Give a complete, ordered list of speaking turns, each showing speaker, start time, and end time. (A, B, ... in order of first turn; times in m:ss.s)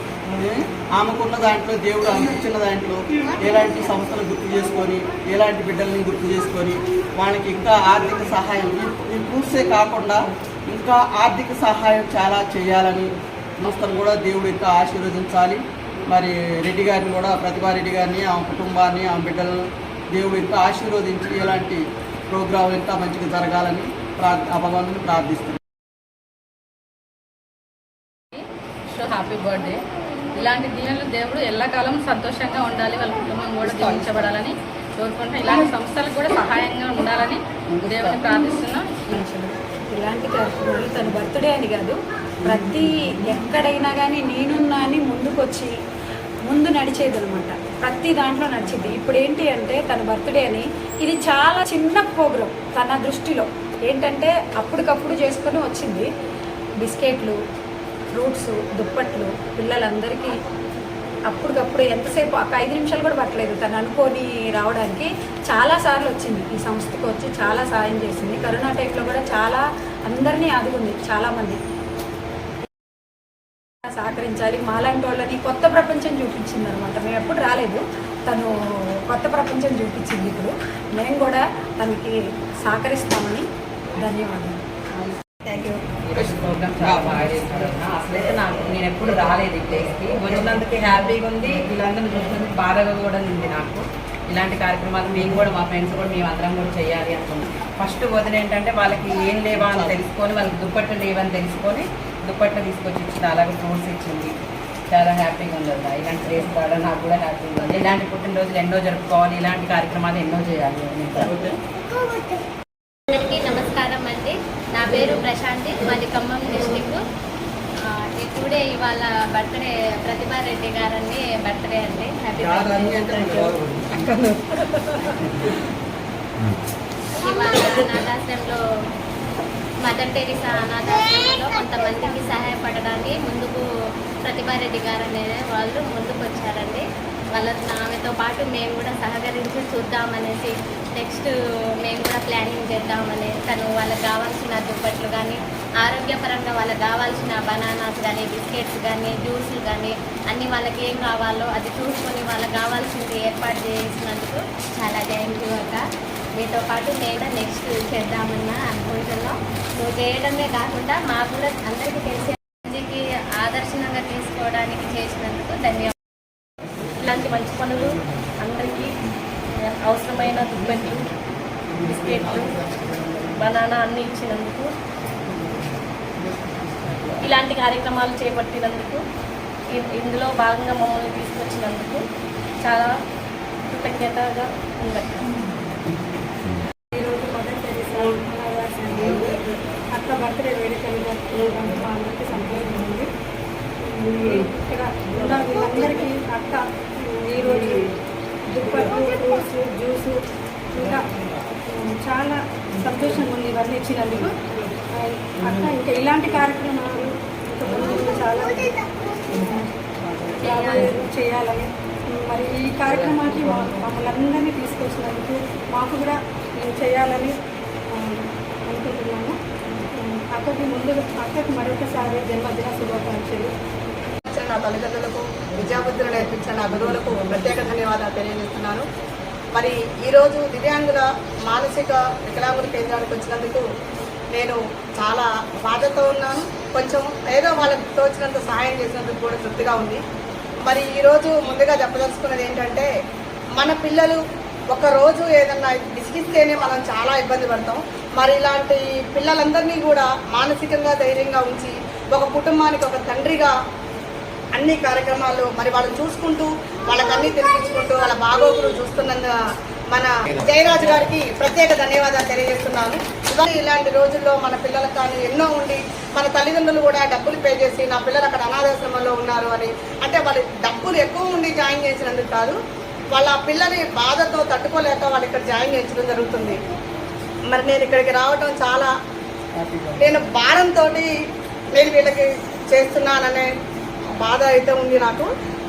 0:00.3-0:13.1 A
0:13.6-0:19.5 A
0:20.1-0:25.6 A
0:28.9-0:29.8 B
0:30.4-0:39.0 B
0:39.1-0:45.7 C
0:46.4-0:56.1 C
0:56.8-0:57.4 C
0:58.1-1:00.3 C
1:01.3-1:11.6 C
1:13.9-1:23.5 C
1:24.0-1:24.6 C
1:26.0-1:44.3 D
1:26.2-1:27.2 A
1:39.5-1:40.0 A
1:44.9-1:51.3 D
1:53.1-1:57.0 E
1:57.9-2:03.5 E
2:02.4-2:04.0 A
2:07.2-2:08.6 E
2:09.8-2:13.6 E
2:14.2-2:16.8 E
2:17.4-2:21.3 E
2:21.8-2:35.8 E
2:36.4-2:45.9 E
2:47.0-2:47.8 F
2:48.4-2:48.9 F
2:49.9-2:51.0 F
2:51.8-2:52.6 F
2:53.4-2:54.7 F
2:57.2-2:59.0 F
2:59.8-3:02.0 F
3:02.6-3:02.9 F
3:03.7-3:05.3 F
3:06.9-3:09.4 G
3:09.9-3:13.1 G
3:13.9-3:16.6 G
3:17.1-3:17.9 G
3:18.5-3:20.2 G
3:20.7-3:21.0 G
3:21.7-3:24.3 G
3:25.0-3:28.8 G
3:29.3-3:29.7 G
3:30.4-3:37.4 G
3:37.9-3:39.4 G
3:40.0-3:43.5 G
3:44.3-3:48.8 H
3:49.5-3:53.6 H
3:54.3-4:00.0 H
4:00.6-4:02.9 H
4:03.6-4:04.2 H
4:04.7-4:13.5 H
4:14.6-4:19.3 H
4:19.9-4:32.6 H
4:33.1-4:36.6 H
4:37.5-4:38.9 H
4:39.6-4:40.0 D
4:40.0-4:41.1 H
4:41.8-4:43.5 H
4:44.2-4:45.3 H